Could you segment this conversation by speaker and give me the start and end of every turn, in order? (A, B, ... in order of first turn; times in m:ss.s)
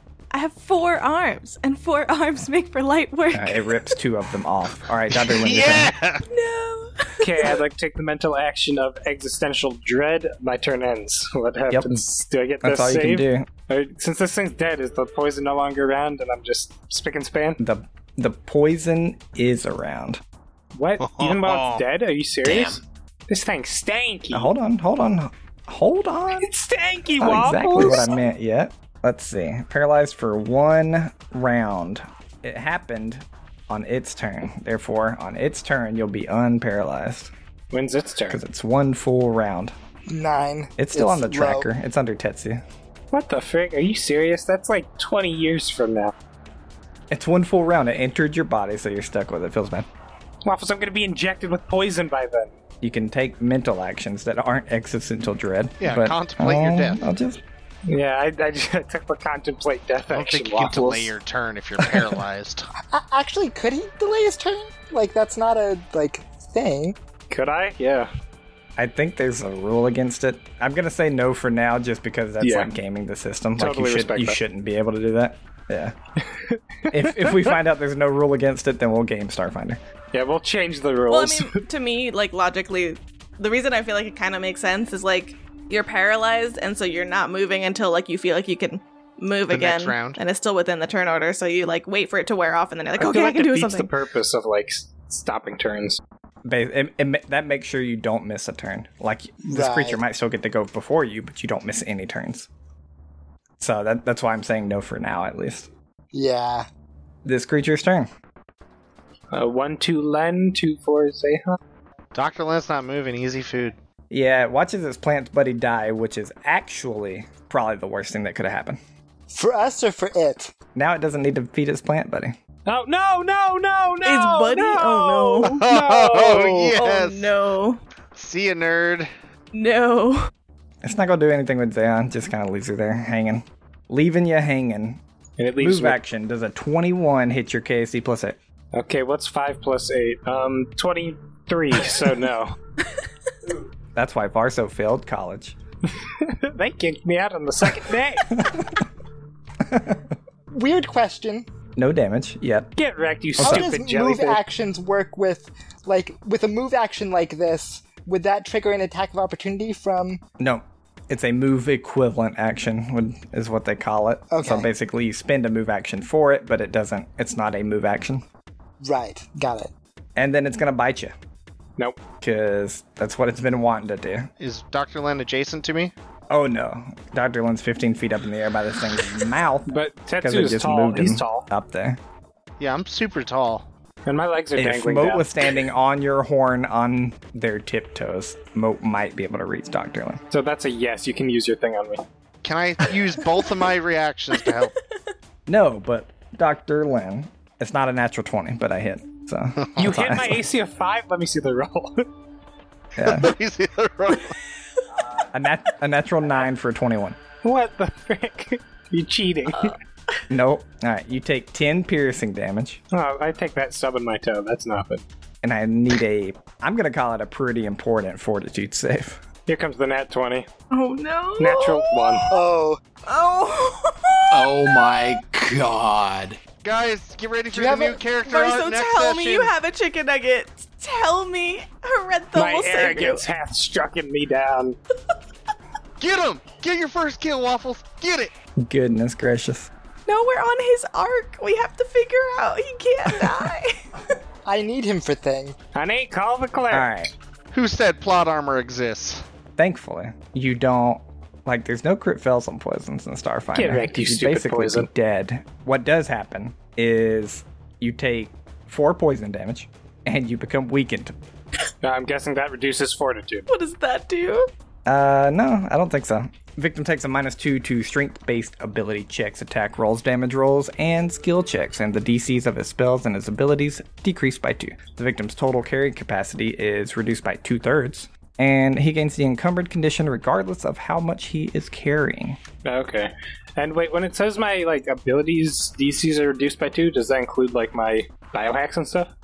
0:00.3-0:03.9 A
0:03.3-0:05.9 B
0:05.1-0:06.2 C
0:06.3-0:07.5 A
0:07.2-0:17.6 D
0:11.7-0:12.0 B
0:12.6-0:13.5 B
0:17.6-0:20.2 B
0:20.7-0:22.8 D
0:21.0-0:21.8 C
0:22.4-0:22.8 E
0:23.3-0:24.5 D
0:24.3-0:26.5 B
0:26.4-0:28.1 D
0:27.2-0:37.3 B
0:37.7-0:38.4 D
0:38.3-0:39.7 B
0:40.1-0:41.7 F
0:40.8-0:42.6 B
0:43.1-0:46.1 D
0:47.1-0:49.9 B
0:50.4-0:52.5 D
0:52.8-0:57.4 B
0:55.8-0:57.0 C
0:57.9-1:01.1 D
1:00.1-1:02.7 C
1:02.9-1:07.0 F
1:07.3-1:08.1 D
1:08.8-1:15.9 B
1:12.4-1:12.7 D
1:13.6-1:14.4 D
1:16.4-1:17.5 D
1:16.9-1:19.8 B
1:20.1-1:21.6 D
1:21.1-1:33.9 A
1:29.5-1:30.2 C
1:33.0-1:36.0 D
1:36.4-1:42.5 B
1:39.5-1:40.0 F
1:43.6-1:45.7 B
1:46.1-1:46.7 F
1:47.2-1:48.1 B
1:49.3-1:51.6 D
1:52.1-1:53.8 C
1:54.1-1:58.8 B
1:59.3-2:00.5 F
2:00.7-2:02.4 B
2:02.6-2:06.8 D
2:04.0-2:05.6 A
2:05.5-2:07.3 C
2:06.7-2:07.8 A
2:08.2-2:09.1 C
2:09.5-2:10.3 A
2:10.8-2:15.0 B
2:15.4-2:16.0 D
2:15.6-2:18.4 B
2:18.7-2:22.5 D
2:23.9-2:25.6 B
2:26.0-2:28.4 D
2:28.3-2:28.8 B
2:29.6-2:30.1 B
2:30.5-2:31.5 F
2:31.8-2:32.7 B
2:32.7-2:34.4 D
2:33.4-2:33.7 B
2:33.4-2:40.2 F
2:40.4-2:48.2 B
2:44.3-2:44.7 F
2:48.8-2:49.7 F
2:50.2-2:51.1 B
2:52.2-2:54.3 B
2:54.4-2:55.9 C
2:56.3-3:02.0 B
2:59.6-3:01.5 D
3:02.6-3:03.7 C
3:04.0-3:05.2 D
3:04.6-3:10.2 B
3:10.3-3:12.0 D
3:12.4-3:14.7 C
3:15.5-3:20.4 B
3:19.8-3:22.1 D
3:23.0-3:23.3 B
3:23.0-3:24.4 C
3:25.3-3:27.2 B
3:27.4-3:29.8 D
3:30.3-3:32.8 B
3:32.9-3:35.0 D
3:35.4-3:39.2 B
3:39.5-3:40.5 D
3:40.7-3:42.3 A
3:41.4-3:42.3 D
3:42.3-3:42.8 F
3:43.0-3:45.2 A
3:44.3-3:46.4 E
3:46.6-3:49.5 C
3:47.5-3:48.0 F
3:48.2-3:53.2 A
3:52.3-3:54.8 D
3:56.0-3:58.3 C
3:58.6-3:59.7 B
4:00.1-4:03.9 A
4:04.4-4:05.6 F
4:05.7-4:06.9 D
4:06.7-4:07.1 B
4:07.5-4:09.2 C
4:09.6-4:21.2 B
4:13.5-4:14.9 D
4:21.8-4:23.5 D
4:23.5-4:24.5 A
4:24.8-4:42.4 B
4:42.6-4:49.1 D